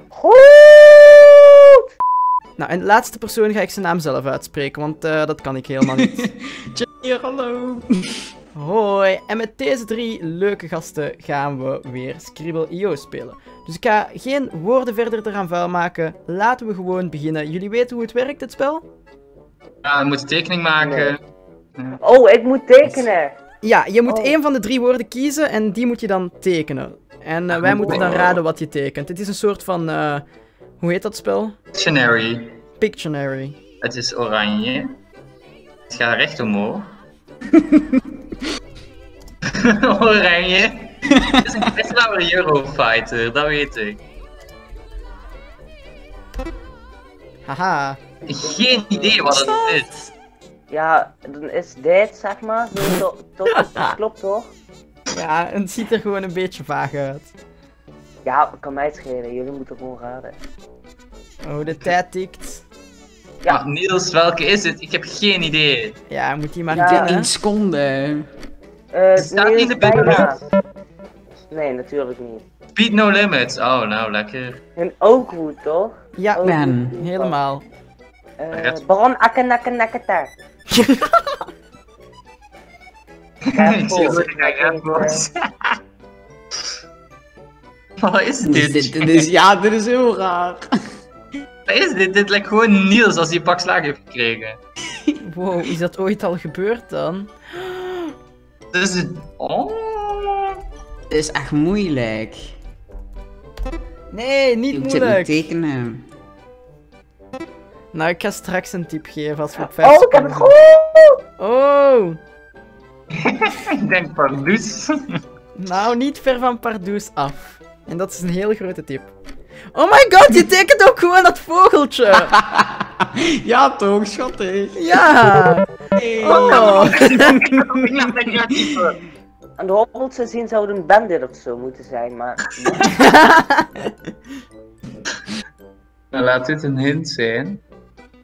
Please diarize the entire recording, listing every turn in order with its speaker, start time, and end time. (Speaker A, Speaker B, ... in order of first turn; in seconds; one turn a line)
Speaker A: 0.3-1.3
Speaker B: 2.6-6.3
Speaker C: 5.8-8.0
Speaker B: 8.5-18.9
Speaker D: 19.8-21.2
Speaker A: 20.8-21.1
Speaker A: 22.0-23.4
Speaker B: 23.6-30.2
Speaker A: 24.1-24.4
Speaker D: 27.5-28.4
Speaker A: 27.8-28.1
Speaker B: 30.8-31.6
Speaker D: 31.7-32.6
Speaker B: 32.8-33.6
Speaker D: 33.8-35.0
Speaker D: 35.9-36.9
Speaker D: 39.5-44.0
Speaker B: 47.5-48.0
Speaker D: 48.3-49.9
Speaker A: 48.4-49.5
Speaker A: 50.7-54.5
Speaker B: 55.1-57.3
Speaker A: 58.2-60.4
Speaker B: 61.4-62.6
Speaker D: 63.5-66.0
Speaker B: 66.1-67.3
Speaker A: 66.7-67.1
Speaker C: 66.7-68.3
Speaker A: 68.9-70.4
Speaker D: 69.2-70.4
Speaker A: 71.5-72.4
Speaker D: 72.8-74.6
Speaker A: 74.8-77.4
Speaker B: 76.2-77.7
Speaker C: 76.4-76.9
Speaker A: 78.4-80.3
Speaker D: 78.5-78.8
Speaker B: 80.7-81.2
Speaker A: 83.5-85.2
Speaker D: 83.5-85.7
Speaker D: 88.0-89.3
Speaker C: 88.4-90.7
Speaker D: 91.7-94.6
Speaker B: 95.2-98.1
Speaker D: 98.7-100.6
Speaker C: 101.1-102.5
Speaker B: 104.1-105.3
Speaker C: 104.7-106.0
Speaker B: 107.9-110.5
Speaker A: 109.6-111.2
Speaker B: 111.4-112.2
Speaker D: 113.2-115.0
Speaker B: 115.6-119.1
Speaker B: 119.7-122.3
Speaker C: 122.1-124.9
Speaker B: 124.8-125.6
Speaker C: 126.0-127.6
Speaker B: 126.2-127.4
Speaker D: 126.3-129.0
Speaker A: 129.6-132.9
Speaker B: 133.0-133.7
Speaker D: 136.1-137.6